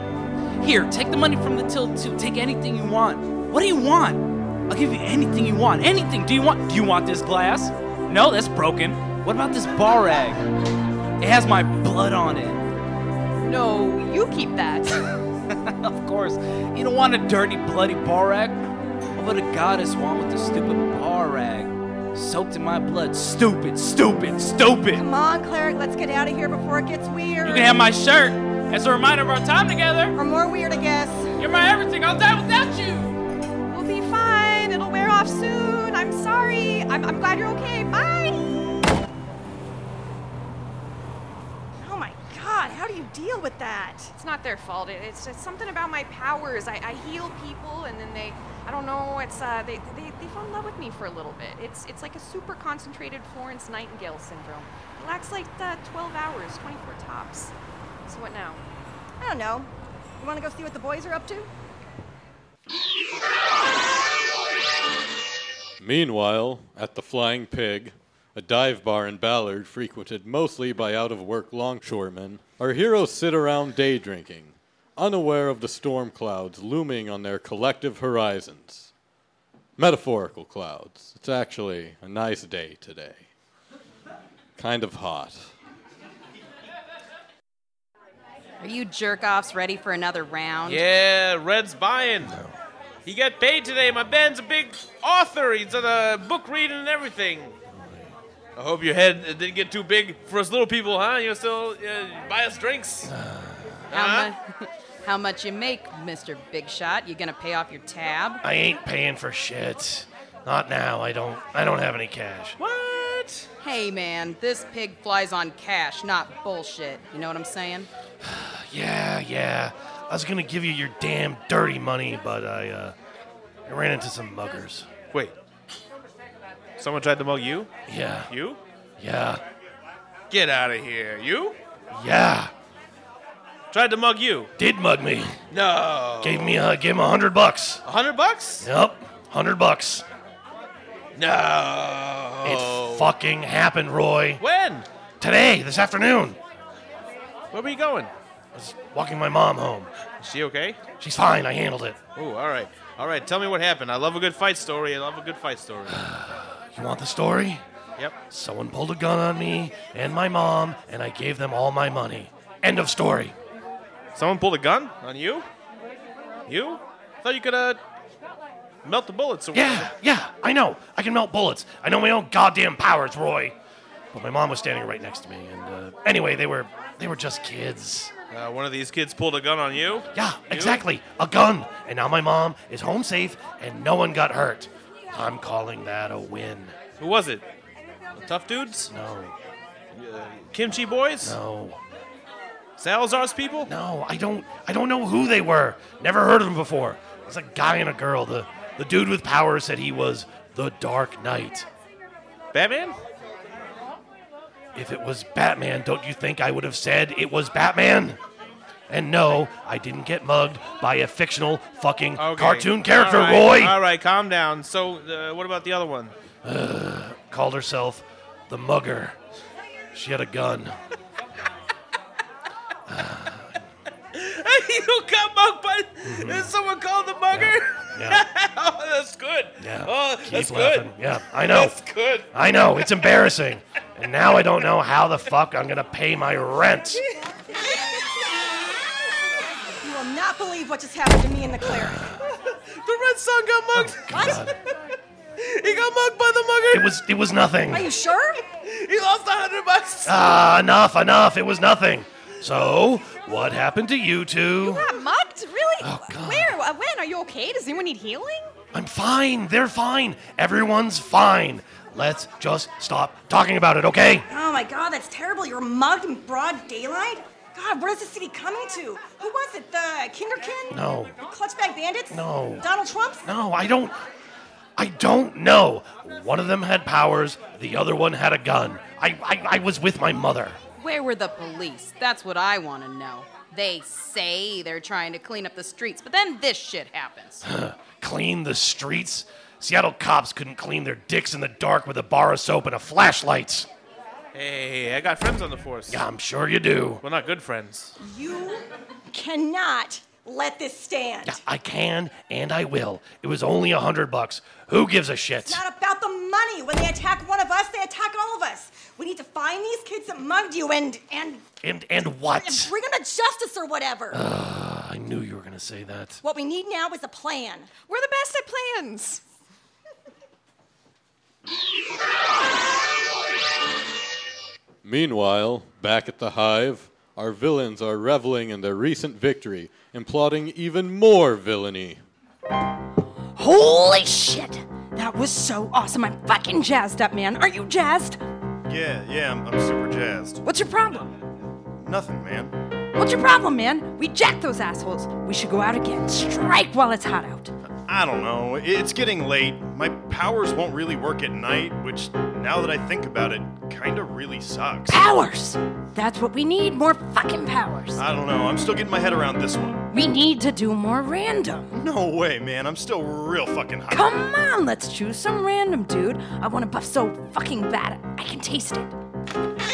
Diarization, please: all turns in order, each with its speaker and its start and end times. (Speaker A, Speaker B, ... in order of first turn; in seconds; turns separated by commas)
Speaker A: 0.6-10.4, Speaker A: 11.2-12.7, Speaker B: 13.4-15.1, Speaker A: 15.5-18.6, Speaker A: 19.1-25.0, Speaker C: 24.9-27.7, Speaker A: 27.4-30.2, Speaker C: 30.1-31.3, Speaker A: 31.4-33.1, Speaker B: 33.7-38.6, Speaker C: 41.8-44.1, Speaker B: 44.2-57.5, Speaker B: 58.0-58.6, Speaker C: 59.2-61.5, Speaker D: 65.8-78.9, Speaker D: 79.8-83.2, Speaker D: 84.6-85.5, Speaker E: 88.6-90.8, Speaker F: 90.7-92.3, Speaker F: 93.0-97.5, Speaker G: 97.7-98.1, Speaker F: 98.6-103.1, Speaker G: 103.1-103.8, Speaker F: 103.9-104.3, Speaker E: 103.9-104.4, Speaker E: 105.0-108.4, Speaker G: 108.4-112.6, Speaker F: 112.6-113.5, Speaker E: 113.6-117.9, Speaker G: 118.2-122.9, Speaker G: 123.7-124.9, Speaker F: 126.8-127.7, Speaker G: 127.9-128.3, Speaker F: 128.3-128.6, Speaker G: 129.0-129.4, Speaker F: 130.3-131.6, Speaker G: 131.9-132.5, Speaker F: 133.7-134.5, Speaker G: 134.6-135.4, Speaker F: 135.5-136.6, Speaker G: 136.2-137.8, Speaker F: 137.8-138.7, Speaker G: 138.6-140.0, Speaker F: 141.1-143.1, Speaker G: 142.4-144.4, Speaker F: 144.4-144.8, Speaker G: 145.2-146.4, Speaker F: 147.5-148.1, Speaker G: 148.5-149.9, Speaker F: 150.2-150.8, Speaker G: 151.0-152.0, Speaker F: 152.2-156.0, Speaker G: 155.9-157.6, Speaker G: 158.3-163.3, Speaker F: 164.1-165.5, Speaker F: 166.5-167.8, Speaker F: 168.8-169.9, Speaker G: 169.5-173.6, Speaker G: 174.1-178.1, Speaker F: 178.3-180.8, Speaker G: 180.1-186.7, Speaker F: 187.0-187.4, Speaker F: 188.2-188.9, Speaker G: 188.9-189.3, Speaker F: 189.9-191.4, Speaker G: 191.2-191.8, Speaker F: 192.8-193.7, Speaker G: 193.7-201.7, Speaker F: 202.5-203.0, Speaker G: 204.7-208.2, Speaker G: 208.9-213.8, Speaker F: 212.2-216.1, Speaker G: 216.4-219.1, Speaker G: 219.9-220.7, Speaker G: 222.9-223.6, Speaker F: 224.1-232.3, Speaker G: 226.0-226.5, Speaker G: 227.3-228.2, Speaker G: 229.6-231.7, Speaker G: 232.3-237.0, Speaker C: 239.8-242.1, Speaker F: 242.3-244.5, Speaker G: 243.8-244.5, Speaker C: 244.1-244.4, Speaker F: 245.4-246.9, Speaker G: 246.7-247.9, Speaker C: 247.7-248.4, Speaker F: 248.6-250.2, Speaker G: 250.1-254.9, Speaker B: 254.6-258.5, Speaker G: 255.8-256.6, Speaker G: 258.7-264.3, Speaker C: 264.3-273.2, Speaker G: 270.7-271.1, Speaker G: 272.1-272.6, Speaker G: 273.2-274.0, Speaker G: 274.8-280.6, Speaker E: 280.8-287.4, Speaker G: 287.4-293.7, Speaker F: 294.3-296.0, Speaker G: 295.9-297.0, Speaker F: 297.0-297.9, Speaker C: 298.0-301.4, Speaker G: 301.2-305.6, Speaker C: 305.4-311.4, Speaker G: 311.6-312.7, Speaker C: 312.3-314.2, Speaker G: 314.1-316.2, Speaker C: 316.2-317.7, Speaker B: 317.9-319.2, Speaker D: 324.8-332.0, Speaker H: 333.3-338.2, Speaker I: 338.6-340.4, Speaker H: 340.4-341.1, Speaker I: 341.8-342.5, Speaker H: 342.9-347.5, Speaker I: 347.9-355.0, Speaker H: 354.9-358.0, Speaker I: 358.0-359.8, Speaker H: 359.9-361.7, Speaker I: 361.7-364.1, Speaker H: 363.9-368.9